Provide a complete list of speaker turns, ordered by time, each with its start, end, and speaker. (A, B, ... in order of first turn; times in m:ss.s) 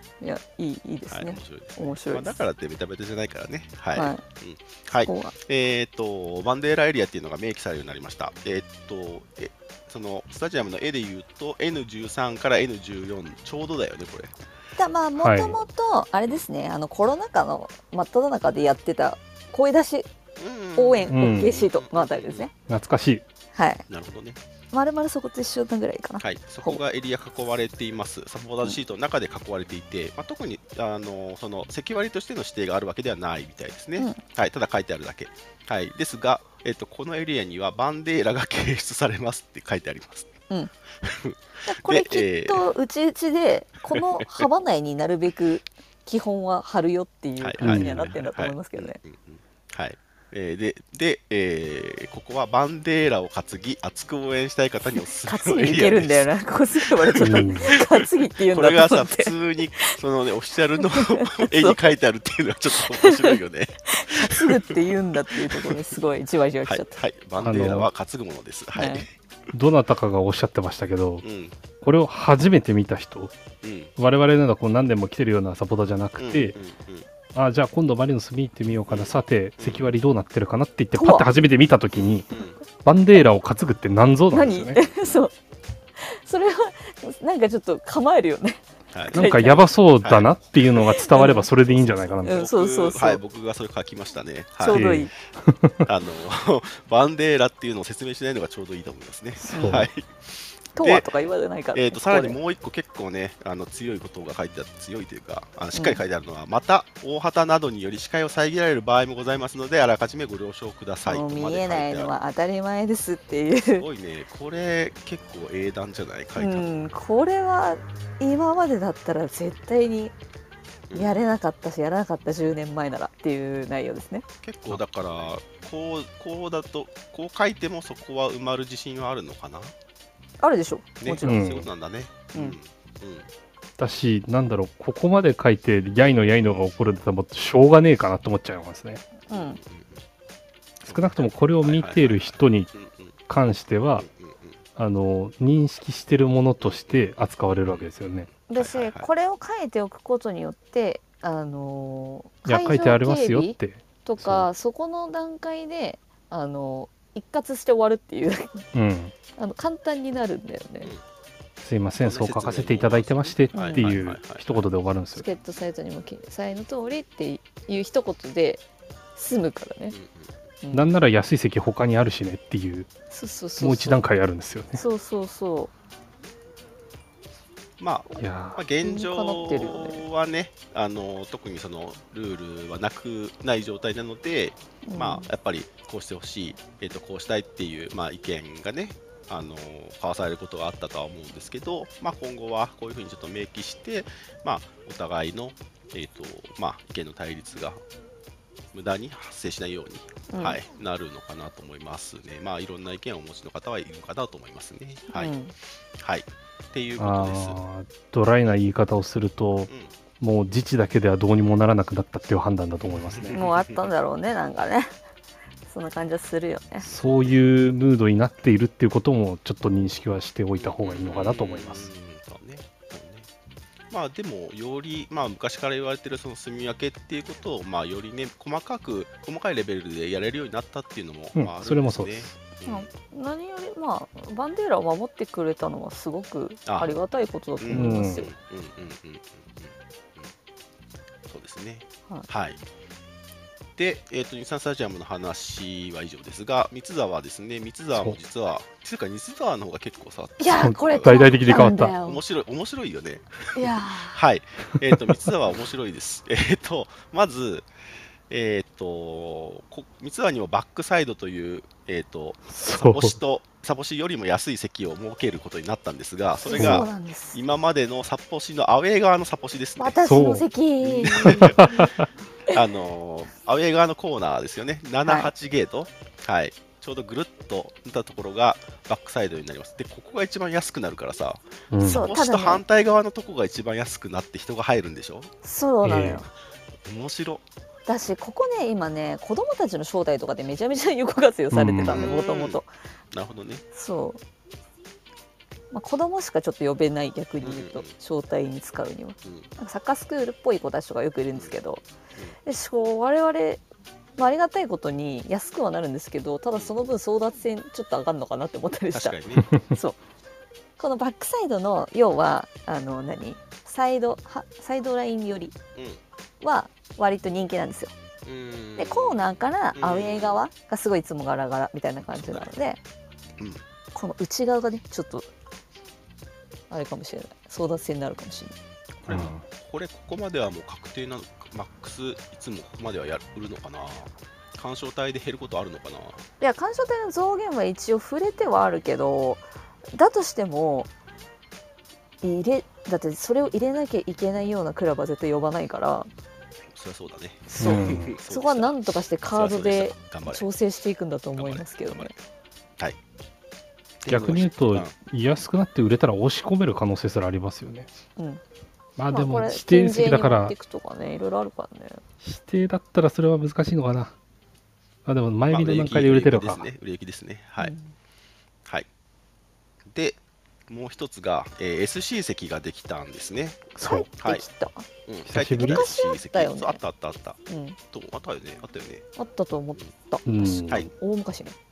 0:00.2-0:02.4 A
0:01.1-0:14.3 B
0:03.9-0:04.2 A
0:05.0-0:05.3 A
0:14.8-0:20.1 A
0:15.2-0:15.6 C
0:20.4-0:22.5 B
0:20.8-0:22.5 A
0:21.1-0:21.6 C
0:22.7-0:23.2 C
0:23.5-0:23.8 A
0:23.9-0:24.4 B
0:24.7-0:26.8 A
0:26.2-0:40.3 B
0:41.0-0:42.6 B
0:41.6-0:49.0 A
0:43.9-0:44.4 B
0:47.4-1:04.8 B
0:47.6-0:48.1 C
0:54.9-1:00.0 A
0:57.2-0:57.6 C
1:00.8-1:01.9 A
1:02.7-1:07.0 A
1:05.3-1:05.8 B
1:06.6-1:09.1 B
1:07.4-1:07.9 C
1:08.7-1:09.1 A
1:09.5-1:11.2 C
1:11.2-1:11.6 B
1:11.8-1:13.3 C
1:13.6-1:13.9 B
1:14.0-1:16.6 C
1:16.2-1:17.1 B
1:17.3-1:22.3 C
1:18.9-1:19.9 B
1:20.9-1:21.3 A
1:21.9-1:22.6 B
1:22.8-1:24.8 C
1:24.3-1:25.3 A
1:24.8-1:25.2 B
1:26.0-1:29.6 A
1:28.9-1:29.3 B
1:29.1-1:32.4 C
1:30.0-1:34.9 B
1:30.9-1:31.5 A
1:32.2-1:33.2 A
1:34.6-1:35.1 A
1:34.7-1:35.8 C
1:35.8-1:41.1 B
1:39.4-1:39.9 A
1:39.5-1:39.9 C
1:40.7-1:42.4 A
1:41.7-1:52.1 B
1:45.7-1:46.0 A
1:51.0-1:53.8 A
1:53.7-1:56.7 B
1:56.4-2:00.1 A
2:00.9-2:01.2 B
2:00.9-2:04.2 A
2:04.4-2:09.7 B
2:10.4-2:11.4 A
2:11.0-2:13.3 B
2:11.2-2:11.7 C
2:13.8-2:19.0 C
2:16.4-2:16.7 B
2:19.3-2:19.6 A
2:19.3-2:20.0 B
2:20.8-2:23.1 B
2:20.8-2:22.7 C
2:23.3-2:24.1 C
2:23.9-2:24.6 B
2:24.8-2:28.3 C
2:26.6-2:27.1 B
2:27.7-2:29.1 B
2:28.5-2:38.6 A
2:32.4-2:34.5 C
2:38.7-2:39.1 C
2:39.4-2:40.9 A
2:41.6-2:45.2 C
2:42.0-2:44.6 B
2:43.5-2:43.9 A
2:45.2-2:48.6 A
2:49.2-2:50.0 A
2:49.9-2:50.3 B
2:50.6-2:50.9 A
2:50.7-2:52.9 C
2:53.1-2:54.0 A
2:53.6-2:54.8 C
2:54.7-2:55.7 A
2:57.8-3:17.8 B
2:58.2-2:58.6 C
2:58.8-3:00.0 A
3:04.8-3:05.3 A
3:18.7-3:25.3 B
3:20.3-3:20.6 A
3:25.1-3:25.5 A
3:26.0-3:27.6 B
3:27.0-3:33.4 C
3:29.7-3:29.9 B
3:32.8-3:33.8 B
3:33.3-3:34.9 A
3:35.7-3:36.9 A
3:36.8-3:41.9 C
3:37.0-3:37.4 B
3:40.6-3:43.3 B
3:43.9-3:52.9 B
3:51.3-3:52.3 C
3:52.6-3:58.3 A
3:56.6-3:56.9 B
3:57.6-4:00.3 B
3:57.7-3:58.2 C
4:01.3-4:02.6 B
4:03.8-4:17.7 B
4:10.4-4:12.2 A
4:10.6-4:11.9 C
4:13.5-4:14.2 A
4:18.3-4:30.0 B
4:22.5-4:23.1 C
4:26.4-4:27.4 A
4:26.5-4:26.9 C
4:29.8-4:31.9 A
4:30.0-4:30.4 C
4:30.8-4:31.9 B
4:31.2-4:32.0 C
4:32.5-4:45.3 B
4:35.0-4:35.3 A
4:41.7-4:42.0 C
4:41.8-4:42.6 A
4:45.4-4:46.3 A
4:45.8-4:46.2 C
4:46.8-4:47.4 B
4:47.9-4:52.7 A
4:51.5-4:52.1 C
4:51.9-4:53.6 B
4:53.7-4:54.2 A
4:55.7-5:01.8 A
4:57.4-4:57.9 B
5:02.4-5:03.6 A
5:04.2-5:09.2 A
5:06.5-5:06.8 B
5:08.9-5:09.5 B
5:09.7-5:10.0 A
5:10.8-5:15.5 A
5:15.7-5:16.0 B
5:16.4-5:17.9 A
5:18.2-5:19.2 B
5:18.8-5:22.8 A
5:19.8-5:20.4 B
5:22.1-5:22.5 B
5:23.4-5:23.6 B
5:23.9-5:25.3 A
5:26.7-5:28.6 A
5:29.0-5:36.2 B
5:29.1-5:29.4 C
5:36.4-5:40.9 A
5:42.2-5:46.1 A
5:46.7-5:48.7 B
5:47.5-5:52.1 A
5:47.6-5:48.1 C
5:49.3-5:50.5 B
5:51.4-5:52.2 B
5:54.0-5:54.9 B
5:54.1-5:57.9 C
5:58.2-5:58.4 A
5:59.0-6:00.5 C
5:59.1-6:02.0 A
6:02.2-6:04.1 C
6:05.0-6:06.6 C
6:05.5-6:07.7 B
6:07.6-6:07.9 A
6:09.9-6:14.4 B
6:13.8-6:14.1 C
6:13.8-6:14.9 A
6:15.0-6:17.4 B
6:15.3-6:15.8 C
6:15.6-6:16.8 A
6:17.5-6:17.8 A
6:17.9-6:19.0 B
6:19.2-6:21.6 A
6:20.2-6:20.9 C